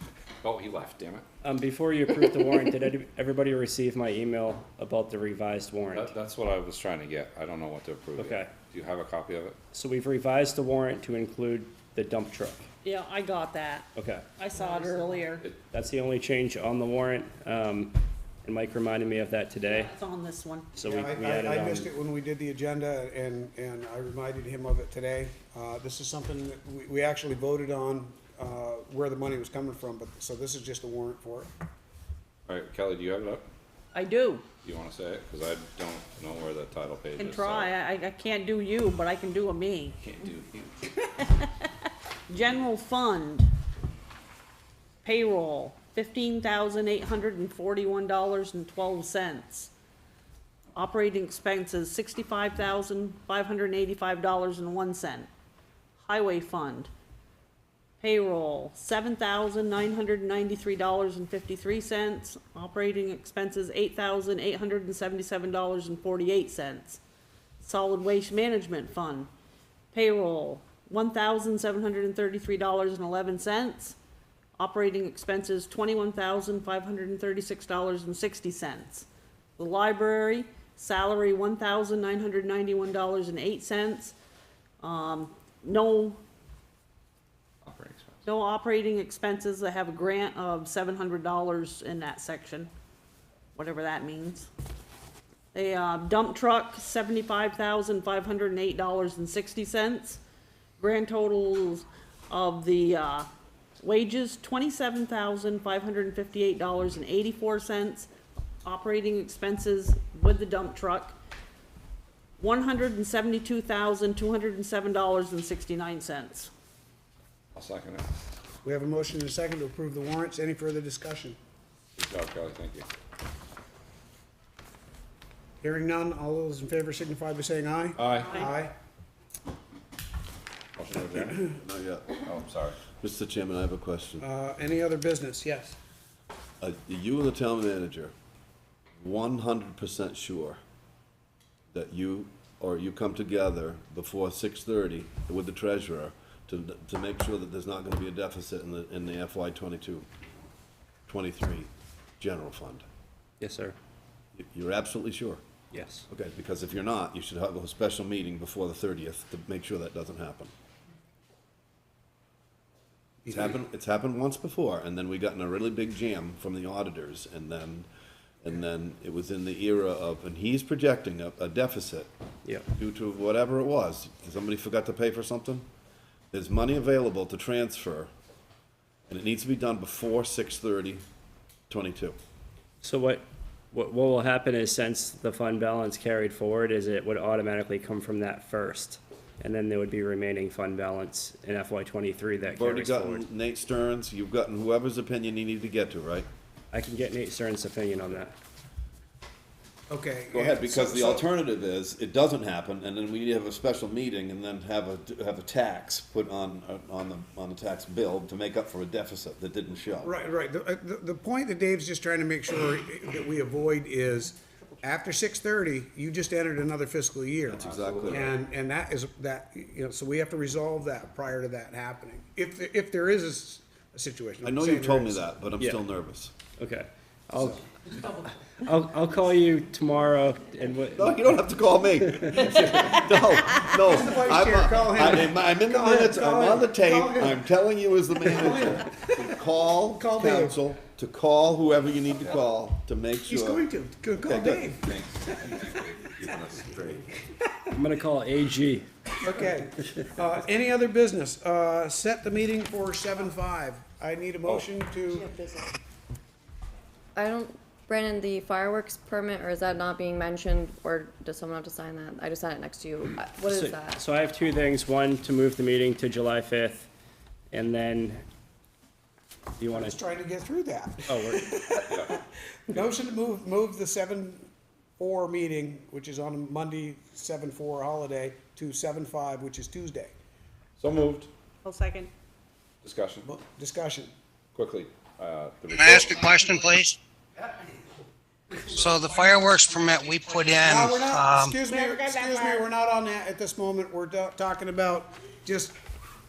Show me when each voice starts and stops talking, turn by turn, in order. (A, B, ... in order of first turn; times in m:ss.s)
0:00.4-0:01.2 A
0:01.4-0:06.1 B
0:05.9-0:09.6 A
0:08.2-0:08.5 B
0:09.7-0:12.7 B
0:12.8-0:15.5 C
0:14.0-0:14.2 B
0:15.7-0:19.9 B
0:19.6-0:20.7 C
0:20.7-0:21.9 B
0:20.8-0:31.5 D
0:32.5-0:33.4 A
0:33.9-0:34.5 C
0:34.6-0:37.7 A
0:37.2-0:40.0 C
0:40.0-0:40.9 A
0:41.0-0:41.7 C
0:42.3-0:43.5 C
0:45.0-0:49.7 C
0:50.8-0:55.3 C
0:56.0-0:56.9 C
0:58.0-1:07.0 C
1:07.6-1:09.3 C
1:09.9-1:14.0 C
1:14.6-1:24.2 C
1:24.8-1:26.2 C
1:27.6-1:28.2 A
1:28.3-1:32.7 C
1:33.6-1:34.5 C
1:35.5-1:40.2 C
1:40.8-1:43.3 C
1:43.8-1:48.1 C
1:48.6-1:51.2 C
1:52.4-1:56.5 C
1:57.6-1:58.0 A
1:58.6-2:01.4 D
2:02.0-2:02.8 A
2:05.6-2:08.8 D
2:08.0-2:08.4 A
2:10.8-2:11.4 A
2:11.5-2:12.1 E
2:12.2-2:12.8 A
2:12.8-2:14.3 E
2:14.2-2:15.8 D
2:16.6-2:18.1 E
2:19.0-2:20.6 E
2:21.7-2:30.1 E
2:31.1-2:32.8 E
2:33.4-2:33.8 B
2:34.4-2:35.4 E
2:35.7-2:36.0 B
2:36.1-2:40.5 E
2:43.2-2:43.5 D
2:43.3-2:47.9 E
2:48.4-2:52.1 E
2:52.8-2:55.7 E
2:56.3-2:58.1 E
2:59.1-3:01.0 E
3:01.7-3:02.2 E
3:02.8-3:13.2 B
3:12.6-3:16.3 E
3:16.7-3:18.4 B
3:19.9-3:21.3 D
3:20.3-3:30.1 E
3:30.0-3:45.3 D
3:37.5-3:38.3 E
3:37.6-3:38.3 A
3:44.4-3:46.3 E
3:46.6-3:51.2 B
3:51.0-4:03.6 E
3:52.5-3:52.9 D
3:53.9-3:57.4 D
3:58.2-3:59.1 D
4:00.0-4:00.6 D
4:03.3-4:05.8 D
4:04.2-4:04.8 E
4:04.8-4:07.1 A
4:07.7-4:08.9 B
4:09.2-4:15.4 D
4:17.2-4:24.0 F
4:23.4-4:26.9 B
4:27.5-4:28.2 B
4:29.6-4:30.0 B
4:29.7-4:34.5 D
4:31.1-4:31.5 B
4:35.0-4:40.2 D
4:40.8-4:41.3 A
4:41.6-4:42.1 C
4:42.8-4:43.3 A
4:43.2-4:44.1 D
4:44.6-4:46.6 A
4:45.7-4:47.0 G
4:48.6-4:51.6 G
4:50.6-4:55.8 D
4:51.7-4:52.7 C